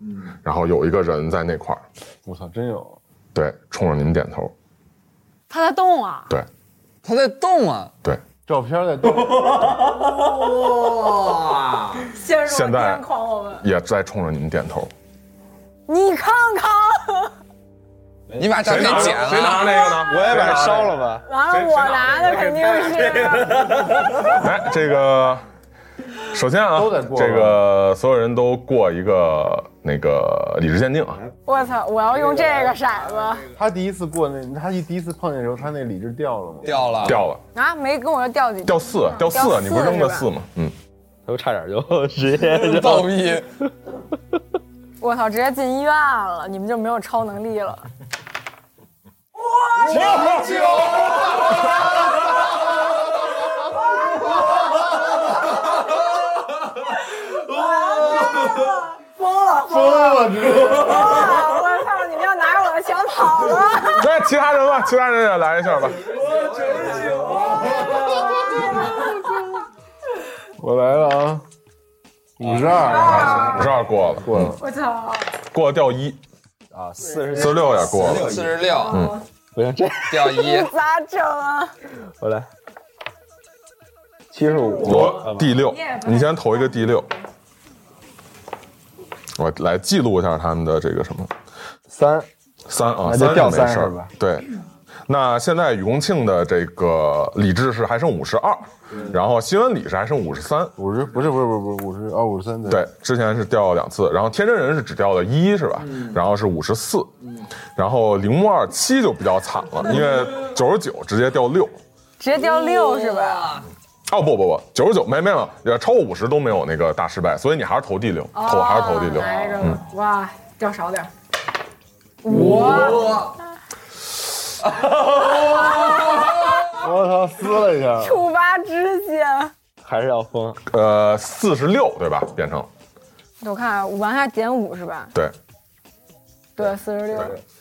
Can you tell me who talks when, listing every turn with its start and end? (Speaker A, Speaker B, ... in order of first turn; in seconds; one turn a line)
Speaker A: 0.4-1.8
Speaker B: 2.2-3.0
Speaker A: 3.3-4.5
Speaker C: 5.5-6.3
Speaker D: 7.0-7.9
Speaker B: 8.5-9.9
Speaker C: 12.1-13.6
Speaker A: 12.4-13.0
Speaker A: 13.6-14.9
Speaker C: 15.9-17.3
Speaker D: 18.4-19.8
Speaker A: 18.6-22.3
Speaker E: 20.0-21.2
Speaker C: 21.2-23.6
Speaker E: 22.1-24.0
Speaker A: 24.3-25.4
Speaker A: 26.3-31.2
Speaker B: 26.7-27.6
Speaker C: 31.4-33.5
Speaker E: 32.3-32.7
Speaker B: 33.5-37.1
Speaker D: 36.6-37.2
Speaker A: 37.0-37.4
Speaker C: 37.5-40.3
Speaker A: 38.6-40.7
Speaker E: 41.3-43.3
Speaker D: 42.4-43.6
Speaker C: 45.0-47.9
Speaker C: 49.5-51.6
Speaker C: 53.6-54.3
Speaker C: 57.4-64.0
Speaker B: 59.7-60.8
Speaker A: 64.0-66.1
Speaker C: 67.9-69.1
Speaker B: 68.5-69.5
Speaker B: 70.6-71.4
Speaker B: 72.4-74.6
Speaker D: 72.5-73.6
Speaker C: 72.9-73.6
Speaker A: 73.2-74.5
Speaker C: 74.6-75.3
Speaker A: 75.5-76.2
Speaker E: 76.7-78.8
Speaker A: 77.3-79.2
Speaker D: 77.8-79.0
Speaker C: 78.7-79.2
Speaker E: 79.5-80.3
Speaker D: 80.1-80.7
Speaker C: 80.2-81.7
Speaker E: 82.2-82.5
Speaker E: 84.3-85.5
Speaker A: 84.8-87.1
Speaker C: 85.6-86.5
Speaker A: 89.4-91.3
Speaker E: 91.9-92.3
Speaker A: 92.7-94.5
Speaker E: 93.0-94.1
Speaker A: 95.1-100.7
Speaker B: 100.8-102.8
Speaker A: 102.7-107.1
Speaker A: 107.8-111.8
Speaker C: 112.2-113.7
Speaker A: 114.1-119.8
Speaker C: 118.3-121.1
Speaker C: 122.2-123.3
Speaker C: 125.7-126.8
Speaker B: 126.7-128.2
Speaker C: 128.0-129.5
Speaker E: 129.8-130.6
Speaker A: 130.7-132.7
Speaker C: 133.4-135.1
Speaker C: 136.6-137.4